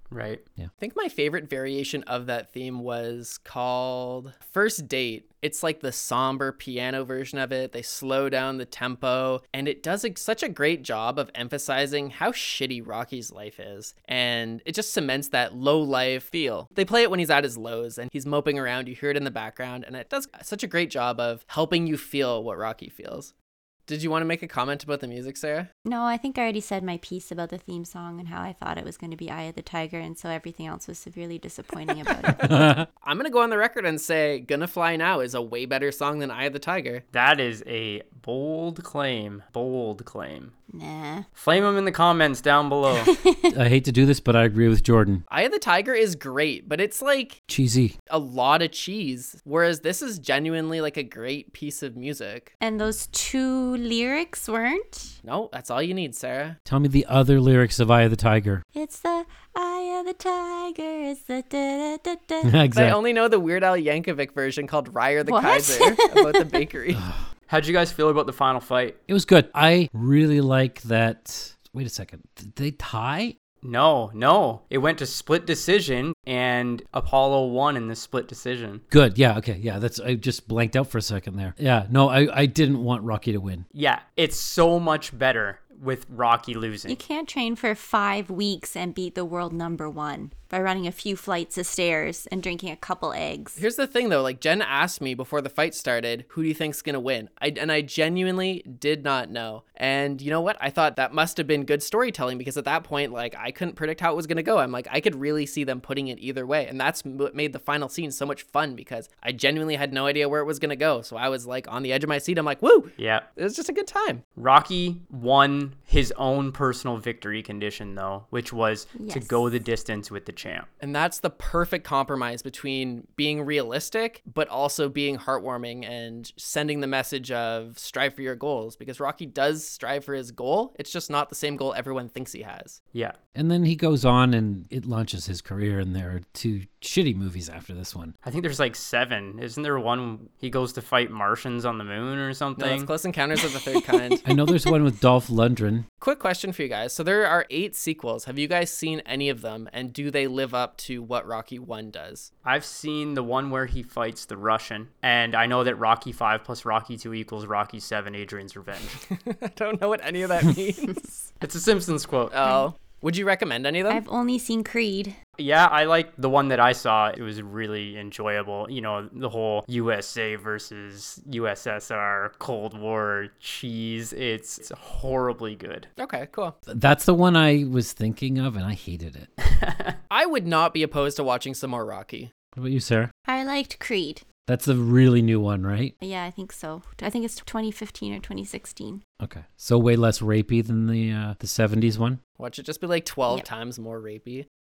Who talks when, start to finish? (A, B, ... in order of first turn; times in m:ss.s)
0:00.1-0:00.4 A
0:00.8-0:23.3 B
0:23.9-0:25.7 B
0:25.8-0:32.5 C
0:32.4-0:32.8 D
0:33.0-0:37.0 B
0:37.1-0:40.5 A
0:40.7-0:41.2 C
0:41.4-0:43.1 A
0:43.0-0:43.5 C
0:43.5-0:45.2 D
0:45.3-0:47.4 B
0:47.5-0:47.9 D
0:48.1-0:52.5 B
0:52.6-0:55.2 C
0:55.2-0:56.6 B
0:56.6-0:58.6 D
0:58.7-1:02.5 C
1:02.4-1:03.0 D
1:02.7-1:07.0 B
1:05.2-1:06.6 C
1:06.9-1:07.3 D
1:07.5-1:09.0 A
1:09.1-1:13.4 D
1:13.6-1:18.8 A
1:18.9-1:23.6 D
1:23.7-1:27.0 A
1:26.9-1:33.6 C
1:33.6-1:54.2 B
1:53.0-1:53.3 A
1:54.4-2:00.7 A
1:59.0-1:59.4 C
2:00.8-2:12.8 B
2:13.3-2:18.1 D
2:18.2-2:22.9 A
2:22.6-2:24.2 B
2:24.2-2:25.8 D
2:26.0-2:32.3 B
2:32.4-2:39.0 A
2:39.0-2:41.3 B
2:41.4-2:42.4 A
2:42.3-2:44.0 B
2:43.9-2:45.2 C
2:45.4-2:55.9 A
2:56.0-2:56.6 B
2:56.7-2:59.3 D
2:59.4-3:00.0 A
3:00.1-3:02.3 B
3:02.5-3:03.1 D
3:03.2-3:04.2 C
3:04.5-3:05.9 D
3:06.0-3:09.0 C
3:09.2-3:12.2 D
3:12.4-3:14.4 B